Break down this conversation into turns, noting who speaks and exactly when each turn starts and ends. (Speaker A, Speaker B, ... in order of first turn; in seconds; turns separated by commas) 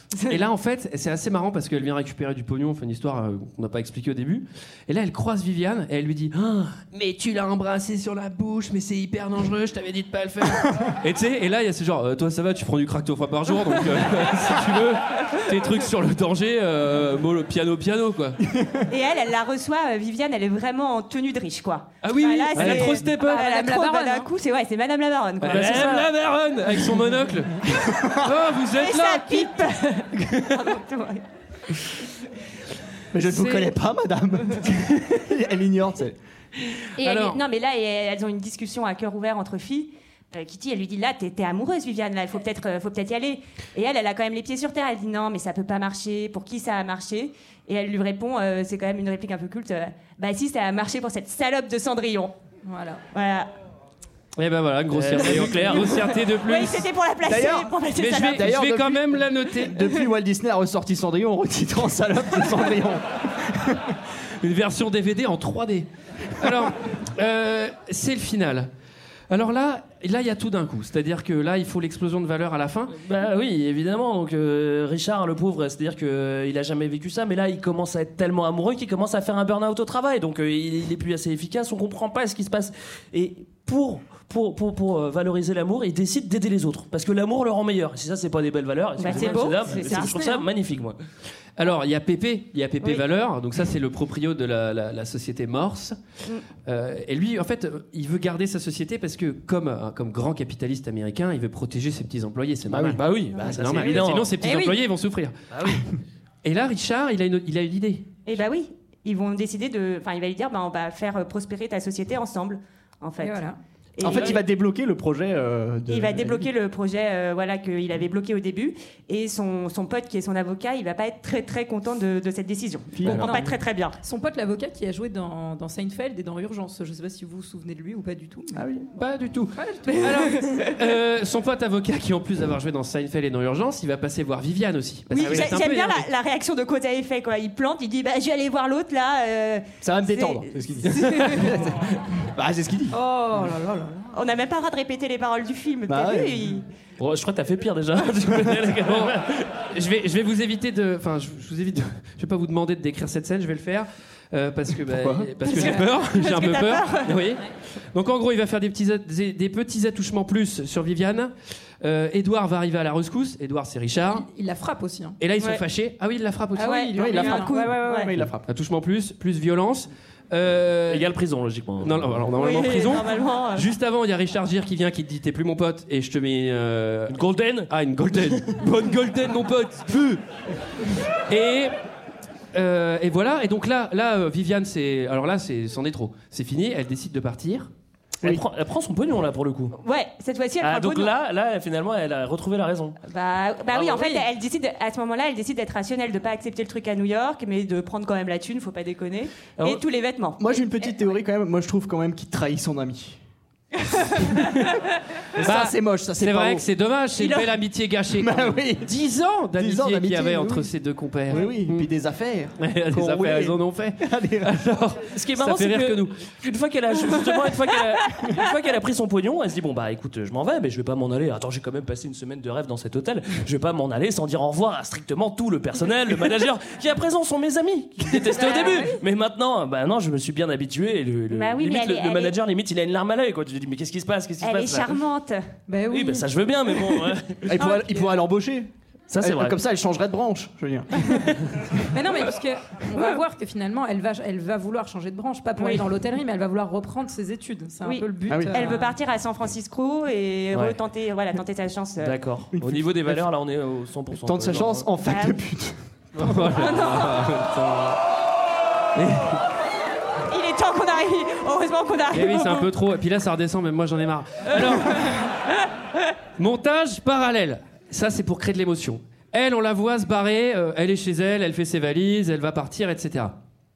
Speaker A: 0.3-18.4, Speaker B: 18.5-18.9, Speaker C: 18.9-26.1, Speaker A: 22.0-23.4, Speaker D: 23.1-24.3, Speaker A: 25.4-29.6, Speaker E: 25.5-26.1, Speaker B: 27.7-28.1, Speaker C: 28.8-31.2, Speaker B: 33.1-36.2, Speaker A: 33.3-33.6, Speaker C: 37.0-52.4, Speaker A: 37.0-37.4, Speaker D: 52.6-53.0, Speaker C: 53.1-53.5, Speaker A: 54.4-56.9, Speaker E: 54.9-56.1, Speaker C: 56.3-58.5, Speaker B: 57.2-64.0, Speaker A: 58.0-59.8, Speaker A: 64.4-68.7, Speaker A: 69.3-73.0, Speaker E: 73.0-91.0, Speaker C: 89.0-90.4, Speaker A: 91.6-96.0, Speaker A: 96.7-105.4, Speaker E: 102.7-104.3, Speaker C: 104.4-104.7, Speaker E: 105.5-105.8, Speaker A: 106.4-108.1, Speaker C: 108.3-113.4, Speaker D: 113.2-113.6, Speaker C: 114.0-114.4, Speaker B: 114.0-116.5, Speaker C: 115.9-124.0, Speaker B: 122.9-123.5, Speaker D: 124.0-128.6, Speaker B: 128.5-128.9, Speaker A: 129.0-136.1, Speaker D: 129.6-130.4, Speaker C: 135.1-141.1, Speaker B: 139.8-143.0, Speaker D: 142.9-144.1, Speaker C: 144.1-146.7, Speaker B: 145.9-146.6, Speaker E: 147.0-149.5, Speaker A: 148.8-149.2, Speaker A: 149.7-164.3, Speaker B: 154.8-155.3, Speaker C: 155.5-157.2, Speaker D: 164.1-165.2, Speaker A: 165.2-166.8, Speaker D: 166.6-168.0, Speaker C: 166.6-168.1, Speaker B: 167.0-168.5, Speaker A: 168.5-171.1, Speaker E: 170.9-172.2, Speaker A: 171.8-177.2, Speaker C: 172.4-173.7, Speaker E: 177.1-177.7, Speaker A: 177.7-180.2, Speaker A: 181.3-181.7, Speaker A: 182.5-187.7, Speaker E: 188.2-189.8, Speaker C: 189.8-191.1, Speaker E: 190.6-193.0, Speaker C: 193.1-200.7, Speaker E: 193.7-194.1, Speaker B: 200.4-203.2, Speaker B: 205.4-206.7, Speaker A: 205.4-211.9, Speaker C: 207.2-207.5, Speaker B: 208.1-208.9, Speaker B: 209.6-210.7, Speaker B: 211.3-214.6, Speaker A: 212.6-216.2, Speaker E: 215.1-235.0, Speaker D: 228.3-229.0, Speaker C: 228.4-228.8, Speaker C: 231.3-232.3, Speaker C: 234.4-235.4, Speaker D: 235.7-236.3, Speaker E: 235.9-237.5, Speaker B: 237.5-238.7, Speaker D: 237.6-238.2, Speaker E: 239.1-239.6, Speaker B: 239.2-241.2, Speaker D: 241.9-249.0, Speaker C: 245.6-246.0, Speaker C: 247.8-252.2, Speaker B: 248.3-248.6, Speaker E: 250.5-250.8, Speaker E: 252.0-254.9, Speaker B: 252.5-253.3, Speaker B: 254.2-256.4, Speaker C: 255.1-255.4, Speaker A: 256.2-258.0, Speaker C: 256.5-257.3, Speaker A: 258.9-259.4, Speaker C: 260.3-262.7, Speaker A: 262.1-265.2, Speaker A: 266.4-273.4